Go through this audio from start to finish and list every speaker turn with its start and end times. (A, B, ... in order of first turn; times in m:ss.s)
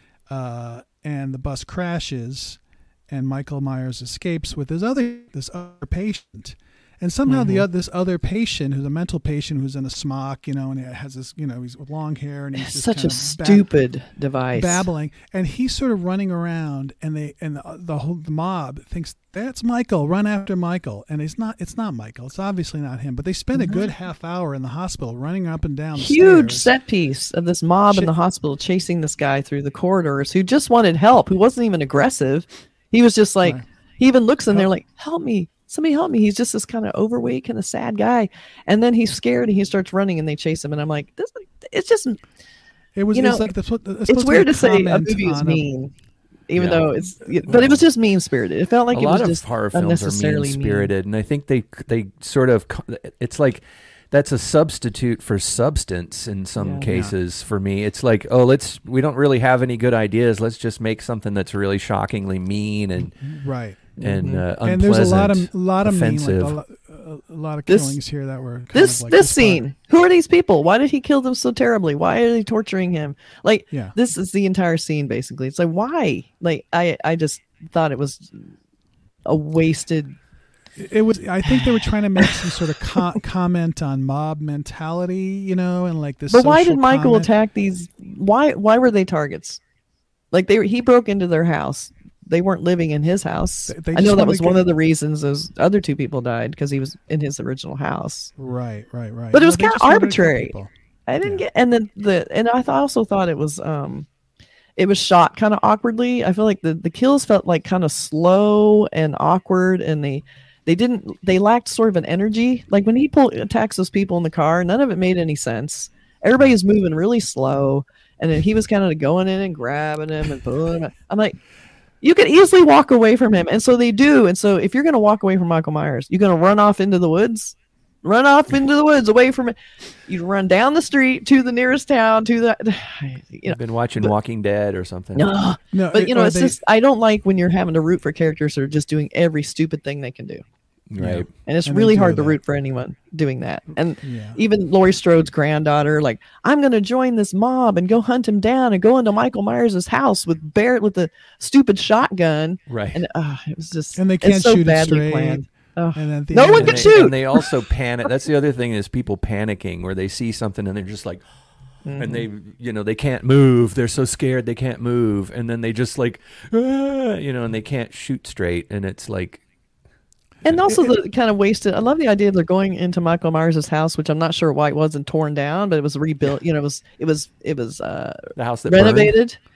0:00.3-0:13.7 A
0:07.3-0:07.6 B
0:12.6-0:14.8 B
0:14.5-0:26.7 A
0:23.5-0:23.9 B
0:25.9-0:42.2 B
0:42.9-0:45.6 A
0:43.1-0:43.5 B
0:44.1-0:45.9 B
0:46.5-0:50.9 B
0:46.6-0:46.9 C
0:47.5-0:47.8 C
0:48.9-1:03.1 C
0:56.6-0:56.9 B
0:56.8-0:57.1 A
1:03.2-1:03.9 A
1:04.0-1:04.4 B
1:04.0-1:06.6 C
1:04.6-1:09.6 A
1:07.7-1:08.0 B
1:08.7-1:18.5 B
1:19.2-1:20.1 B
1:20.8-1:27.3 A
1:21.6-1:22.4 B
1:26.3-1:29.6 B
1:30.3-1:38.3 B
1:33.7-1:34.6 A
1:38.4-1:40.7 A
1:39.3-1:40.5 B
1:41.1-1:44.1 B
1:44.8-2:01.4 B
2:02.0-2:09.5 B
2:10.0-2:14.1 B
2:13.5-2:15.3 C
2:15.2-2:20.4 B
2:15.7-2:16.6 A
2:20.9-2:21.3 C
2:21.0-2:22.4 A
2:21.4-2:37.5 B
2:24.0-2:24.4 A
2:32.7-2:33.0 C
2:34.0-2:35.4 A
2:35.9-2:37.1 A
2:36.5-2:41.2 C
2:41.8-2:42.3 B
2:42.0-2:49.4 C
2:50.4-2:59.4 B
2:58.4-2:59.1 C